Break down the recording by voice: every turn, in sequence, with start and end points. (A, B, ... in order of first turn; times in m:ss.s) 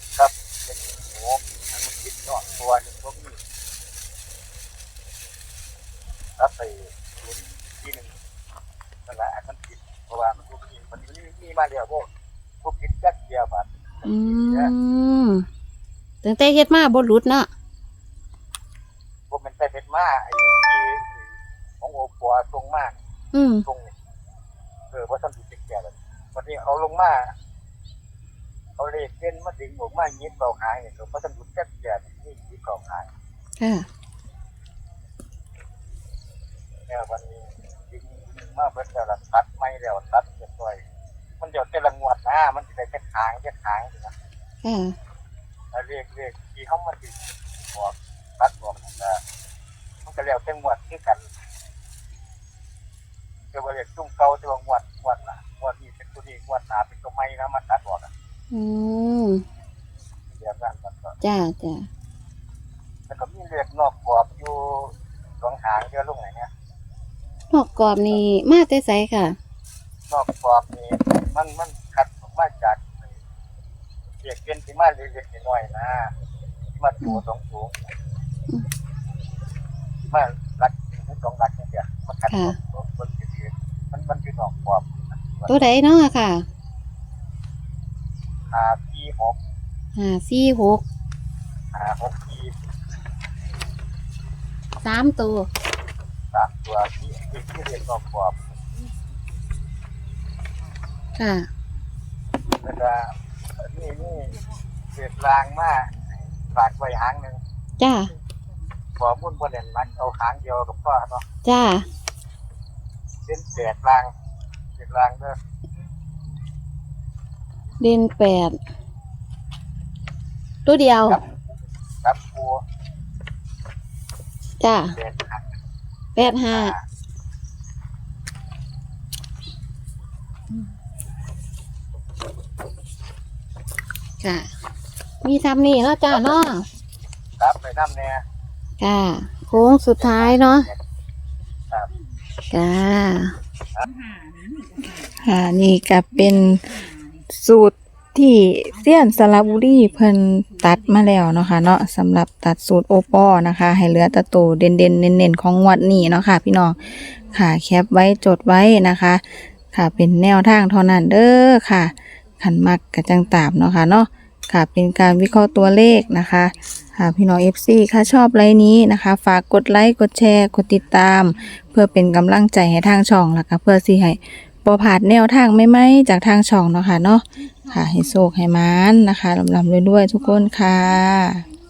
0:00.2-0:03.4 A
0:06.4-0:08.1 A
0:09.1-0:12.0 A
0:12.6-0:14.7 A
0:14.1-0:15.5 B
0:16.2-0:17.5 B
0:19.3-0:21.3 A
0:21.8-0:23.0 A
0:23.3-0:23.6 B
0:23.6-0:23.9 A
0:24.9-0:27.3 A
0:28.8-0:33.1 A
0:33.6-0:33.9 B
0:36.9-0:40.8 A
0:41.4-0:44.1 A
0:44.6-0:45.0 B
0:45.7-0:47.2 A
0:47.7-0:49.2 A
0:50.0-0:51.2 A
0:53.5-0:58.1 A
0:58.5-0:59.4 B
1:00.3-1:01.1 A
1:01.2-1:01.9 B
1:03.1-1:06.5 A
1:07.5-1:09.4 B
1:07.8-1:08.2 A
1:10.1-1:13.1 A
1:14.2-1:16.1 A
1:16.7-1:17.8 A
1:20.0-1:25.7 A
1:25.5-1:26.4 B
1:28.5-1:29.4 A
1:30.0-1:30.8 B
1:31.7-1:32.5 A
1:34.8-1:35.5 B
1:36.3-1:38.3 A
1:41.2-1:41.5 B
1:42.6-1:43.1 A
1:43.6-1:44.4 A
1:44.9-1:45.9 A
1:46.5-1:47.4 A
1:47.8-1:48.1 B
1:49.0-1:51.2 A
1:51.4-1:51.8 B
1:53.2-1:54.1 A
1:54.8-1:55.4 A
1:57.8-1:58.6 B
2:00.6-2:01.2 B
2:01.1-2:02.6 A
2:04.6-2:05.0 B
2:04.9-2:05.4 A
2:06.2-2:06.7 B
2:06.2-2:06.8 A
2:14.2-2:14.5 B
2:15.2-2:16.7 B
2:16.1-2:16.4 A
2:17.4-2:18.2 A
2:18.8-2:20.7 B
2:19.5-2:20.8 A
2:22.5-2:23.4 B
2:24.4-2:25.0 B
2:25.2-3:01.4 C